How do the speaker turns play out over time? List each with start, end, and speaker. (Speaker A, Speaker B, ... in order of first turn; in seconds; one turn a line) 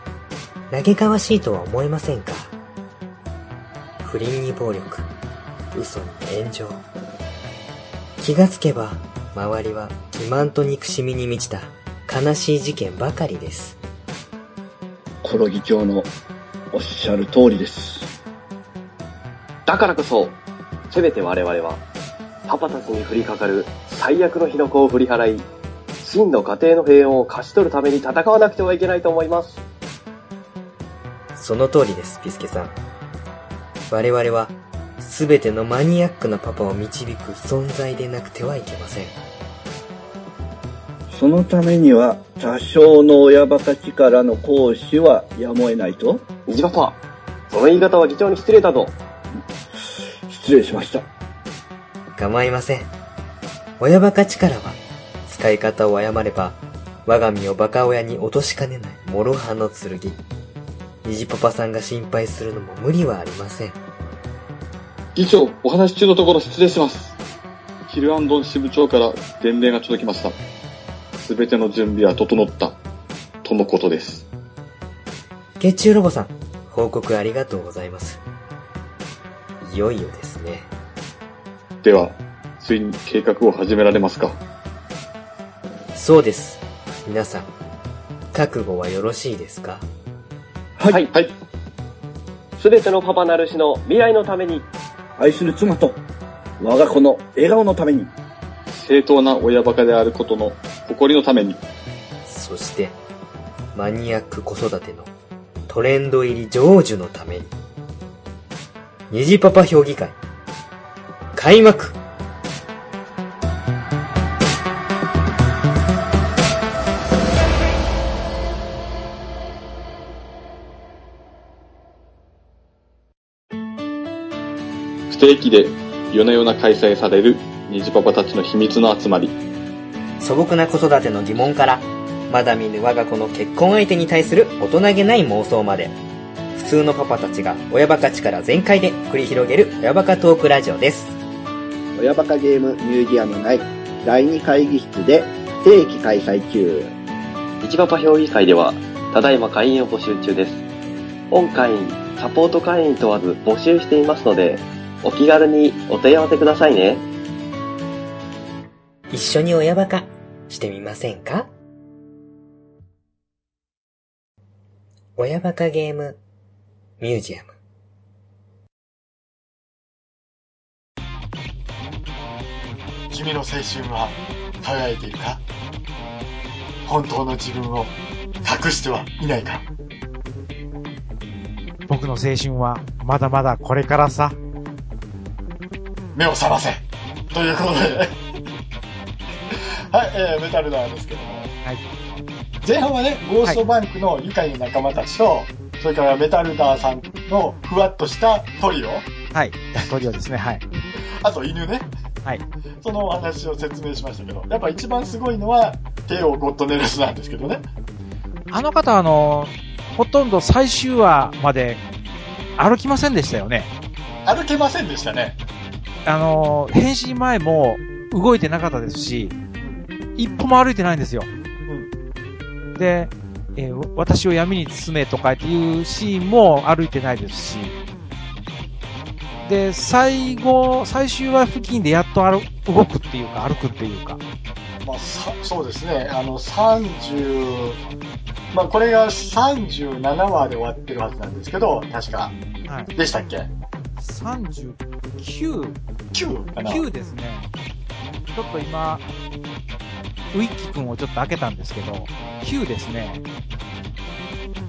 Speaker A: 0.7-2.5
Speaker A: 4.0-5.1
Speaker A: 5.7-6.8
Speaker A: 8.2-13.8
Speaker B: 15.2-16.1
Speaker B: 16.7-18.1
Speaker C: 19.7-20.4
Speaker C: 20.9-21.8
Speaker C: 22.5-25.5
Speaker C: 26.0-29.6
Speaker A: 31.3-32.8
Speaker A: 33.9-39.1
Speaker B: 41.1-46.2
Speaker C: 46.5-47.0
Speaker C: 47.5-48.9
Speaker B: 49.7-51.0
Speaker A: 52.1-52.9
Speaker A: 53.8-60.2
Speaker A: 61.0-63.8
Speaker D: 65.1-67.2
Speaker D: 67.9-70.4
Speaker D: 71.2-72.8
Speaker D: 73.4-74.3
Speaker A: 75.6-78.2
Speaker A: 79.6-80.7
Speaker D: 81.8-84.4
Speaker A: 85.9-87.5
Speaker A: 88.3-89.8
Speaker B: 90.8-91.0
Speaker C: 92.6-94.7
Speaker B: 95.2-96.0
Speaker B: 96.6-98.1
Speaker D: 98.7-101.6
Speaker A: 102.2-103.0
Speaker A: 103.7-105.1
Speaker A: 105.7-107.5
Speaker A: 109.1-110.2
Speaker A: 111.3-112.0
Speaker D: 125.1-129.3
Speaker A: 130.2-136.0
Speaker A: 136.5-141.2
Speaker E: 141.9-146.9
Speaker C: 147.6-150.6
Speaker C: 151.3-157.0
Speaker A: 159.1-161.5
Speaker A: 165.2-166.2
Speaker A: 167.0-167.6
Speaker F: 173.1-175.4
Speaker F: 176.8-179.6
Speaker G: 181.9-184.4
Speaker F: 186.1-188.1
Speaker F: 189.5-191.5
Speaker F: 192.6-199.1
Speaker G: 199.3-200.6
Speaker F: 201.2-201.9
Speaker F: 202.8-207.6
Speaker G: 208.5-211.8
Speaker G: 212.6-213.7
Speaker F: 214.2-215.4
Speaker G: 216.0-219.3
Speaker G: 220.2-221.3
Speaker G: 222.7-227.8
Speaker G: 229.4-234.2
Speaker F: 234.8-237.8
Speaker F: 238.5-242.3
Speaker F: 242.9-243.5
Speaker G: 244.0-245.8
Speaker F: 246.1-246.8
Speaker G: 246.7-247.5
Speaker G: 248.3-249.0
Speaker G: 250.3-253.2